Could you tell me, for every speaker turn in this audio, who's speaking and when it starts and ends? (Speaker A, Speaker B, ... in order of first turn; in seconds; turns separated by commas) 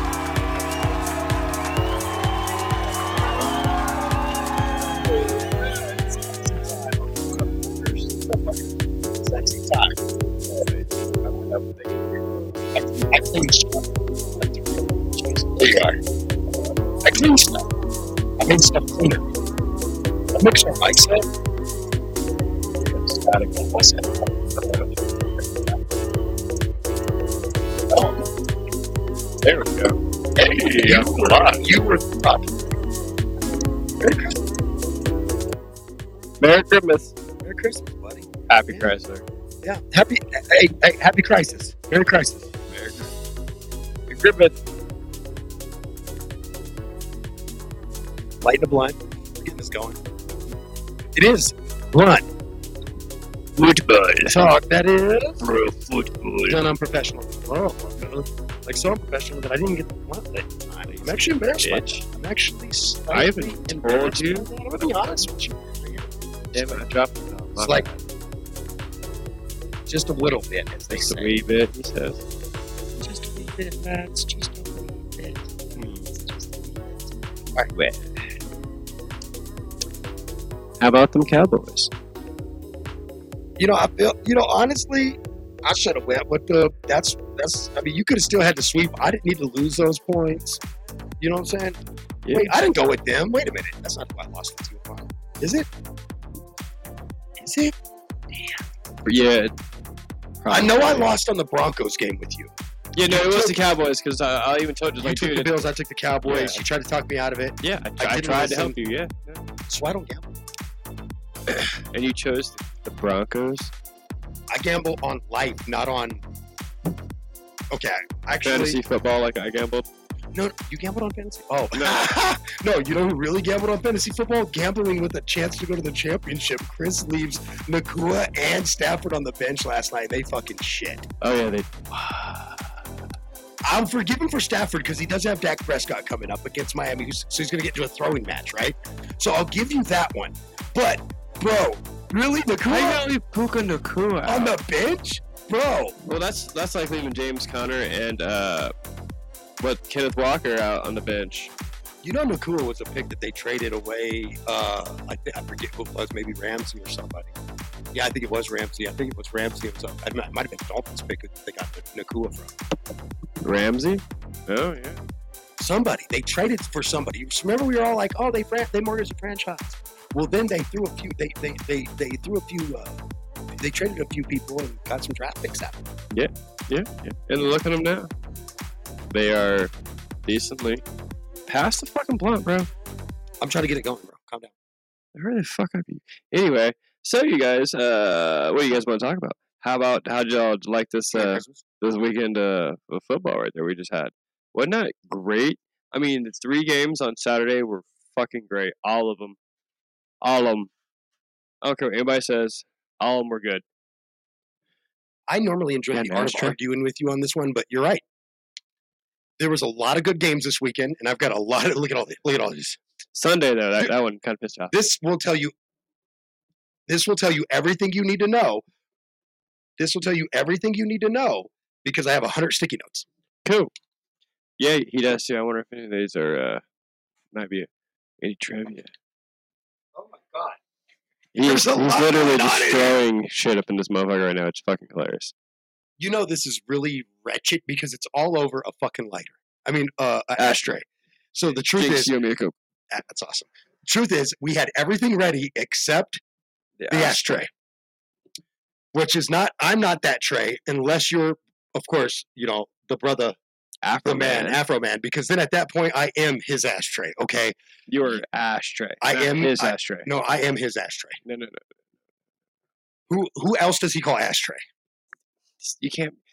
Speaker A: 5.6-8.1, Speaker B: 8.3-8.6, Speaker B: 9.2-10.0, Speaker A: 10.5-11.9, Speaker B: 12.8-13.8, Speaker B: 14.4-16.0, Speaker B: 17.0-17.6, Speaker B: 18.4-19.2, Speaker B: 20.4-21.3, Speaker B: 23.0-24.1, Speaker B: 27.9-28.2, Speaker A: 29.4-31.7, Speaker B: 30.5-32.5, Speaker B: 34.0-34.4, Speaker A: 36.4-37.1, Speaker B: 37.4-38.9, Speaker A: 38.5-39.2, Speaker B: 39.6-42.5, Speaker A: 42.7-43.1, Speaker A: 44.1-44.5, Speaker B: 48.4-50.0, Speaker B: 51.1-52.2, Speaker A: 53.6-54.4, Speaker B: 54.3-55.5, Speaker A: 55.4-56.6, Speaker B: 56.5-66.8, Speaker A: 60.9-62.0, Speaker A: 63.1-64.5, Speaker A: 66.5-68.0, Speaker B: 67.6-67.8, Speaker B: 69.9-71.4, Speaker A: 70.9-72.2, Speaker B: 73.0-77.7, Speaker A: 77.7-78.0, Speaker A: 80.8-81.9, Speaker B: 83.6-90.6, Speaker B: 91.2-91.8, Speaker A: 92.2-92.5, Speaker B: 92.3-95.7, Speaker B: 97.4-97.7, Speaker A: 99.0-99.5, Speaker A: 100.4-101.1, Speaker B: 100.5-102.5, Speaker A: 103.0-105.6, Speaker B: 103.0-103.6, Speaker B: 105.0-108.8, Speaker A: 106.3-106.6, Speaker A: 107.6-109.4, Speaker B: 109.7-110.3, Speaker A: 111.5-113.7, Speaker B: 114.5-116.2, Speaker B: 117.7-118.8, Speaker A: 118.4-119.9, Speaker B: 120.3-131.1, Speaker A: 121.7-122.1, Speaker A: 131.2-132.6, Speaker B: 133.7-143.0, Speaker A: 142.7-144.6, Speaker B: 144.3-146.0, Speaker A: 146.1-148.7, Speaker A: 149.6-151.5, Speaker B: 152.0-157.3, Speaker B: 157.9-162.5, Speaker A: 163.4-165.0, Speaker B: 165.6-173.0, Speaker B: 173.6-175.8, Speaker A: 176.1-178.1, Speaker A: 179.1-179.7, Speaker A: 180.3-180.8, Speaker A: 181.5-182.7, Speaker B: 183.4-184.5, Speaker A: 185.2-199.4, Speaker B: 191.1-191.7, Speaker A: 200.2-200.7, Speaker A: 201.6-203.6, Speaker B: 205.3-208.0, Speaker A: 205.9-206.6, Speaker B: 209.4-212.8, Speaker A: 213.2-214.7, Speaker B: 214.7-215.5, Speaker B: 216.9-218.6, Speaker B: 219.8-223.1, Speaker A: 223.4-223.7, Speaker A: 224.6-226.6, Speaker A: 227.3-227.7, Speaker A: 228.2-228.9, Speaker B: 229.9-230.6, Speaker A: 231.3-235.3, Speaker B: 231.4-233.0, Speaker B: 236.0-242.1, Speaker A: 241.8-242.5, Speaker B: 242.9-246.2, Speaker A: 246.8-247.5, Speaker B: 246.9-247.5, Speaker B: 248.9-253.4, Speaker A: 253.8-254.6, Speaker B: 254.1-258.2, Speaker A: 257.9-260.1, Speaker B: 259.0-261.2, Speaker A: 261.2-261.6, Speaker B: 263.1-264.6, Speaker A: 265.6-266.2